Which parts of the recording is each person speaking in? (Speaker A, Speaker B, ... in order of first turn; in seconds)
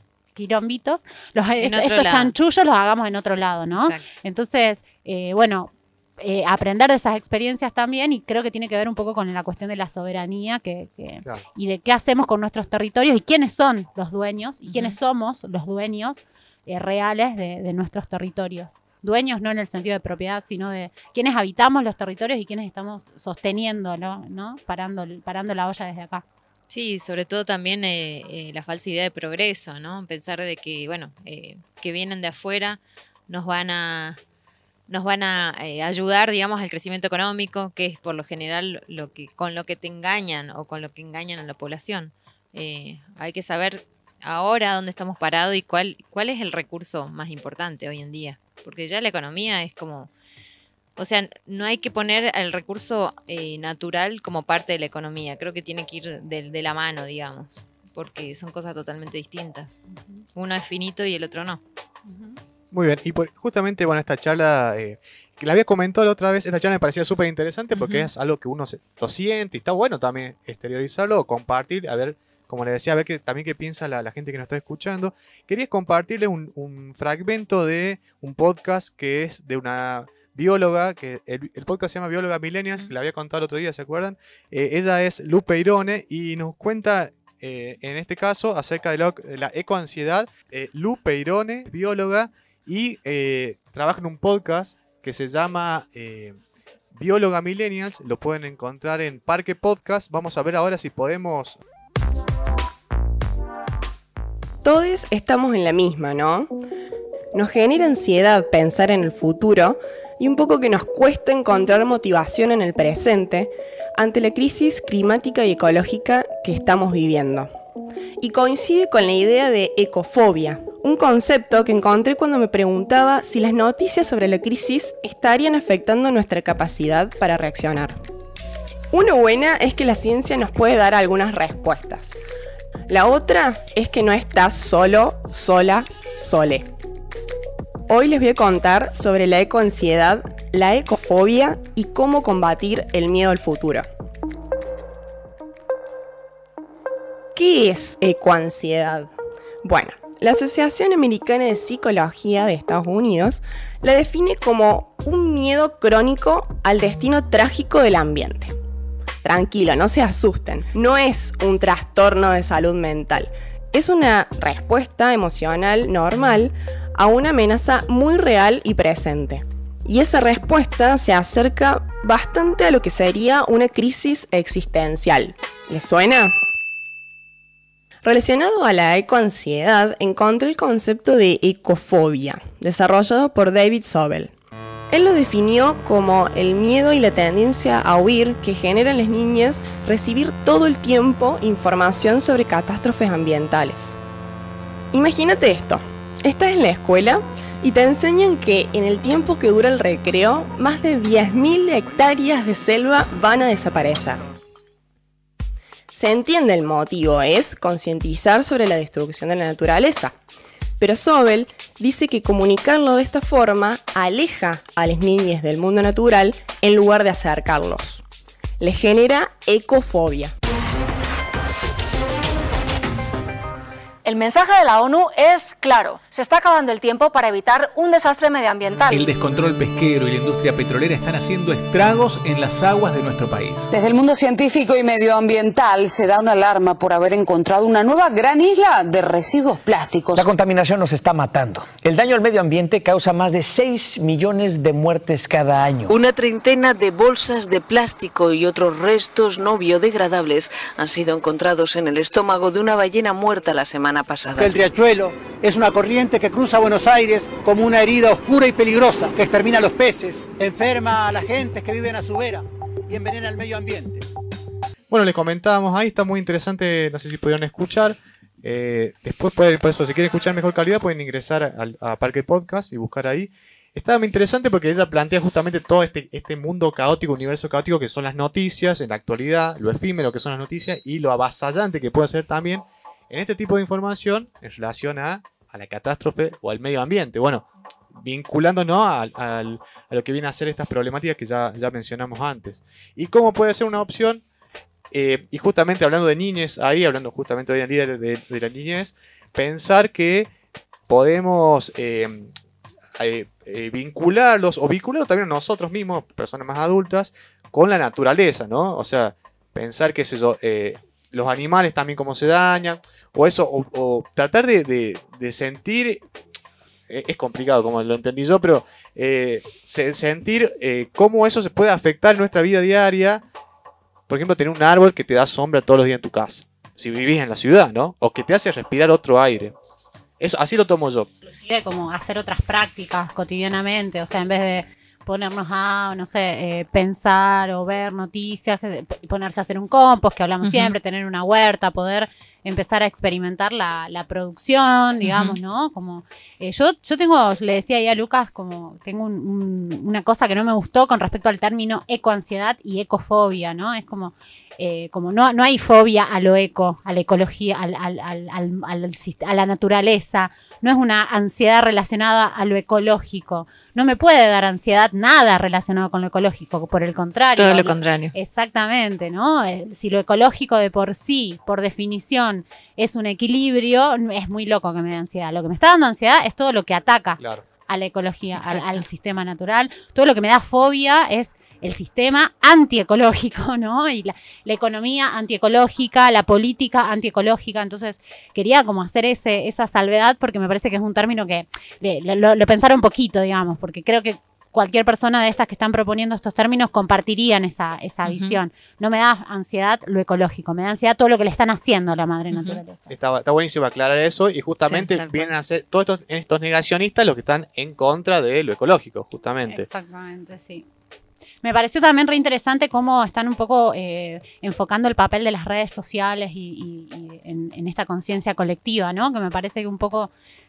Speaker A: 0.3-26.2, 331.2-402.9, 409.5-410.6, 411.4-420.1
Speaker B: 1.6-2.3, 3.8-4.1, 14.7-14.9, 26.7-34.2, 34.9-50.1, 51.0-59.8, 60.3-61.6, 67.7-68.1, 340.4-340.7, 345.0-345.4, 367.4-368.1, 378.4-378.8, 398.0-398.4, 402.3-402.6, 404.6-405.3
Speaker C: 62.7-96.4, 96.9-101.6, 264.9-294.2, 294.9-300.3, 300.9-302.3, 303.0-316.0, 316.9-323.2, 324.1-329.5, 330.2-331.1, 377.2-377.4, 402.9-409.7
Speaker D: 104.6-106.5, 107.3-117.5, 118.2-128.0, 128.9-132.2, 132.9-136.7, 137.9-143.9, 147.3-158.5, 159.2-176.3, 178.0-184.3, 184.9-194.0, 194.9-204.2, 205.9-210.2, 210.8-218.0, 218.6-220.3
Speaker E: 224.0-229.0
Speaker F: 228.9-233.7
Speaker G: 233.7-240.3
Speaker H: 240.1-246.0
Speaker I: 245.9-254.6
Speaker J: 254.3-264.1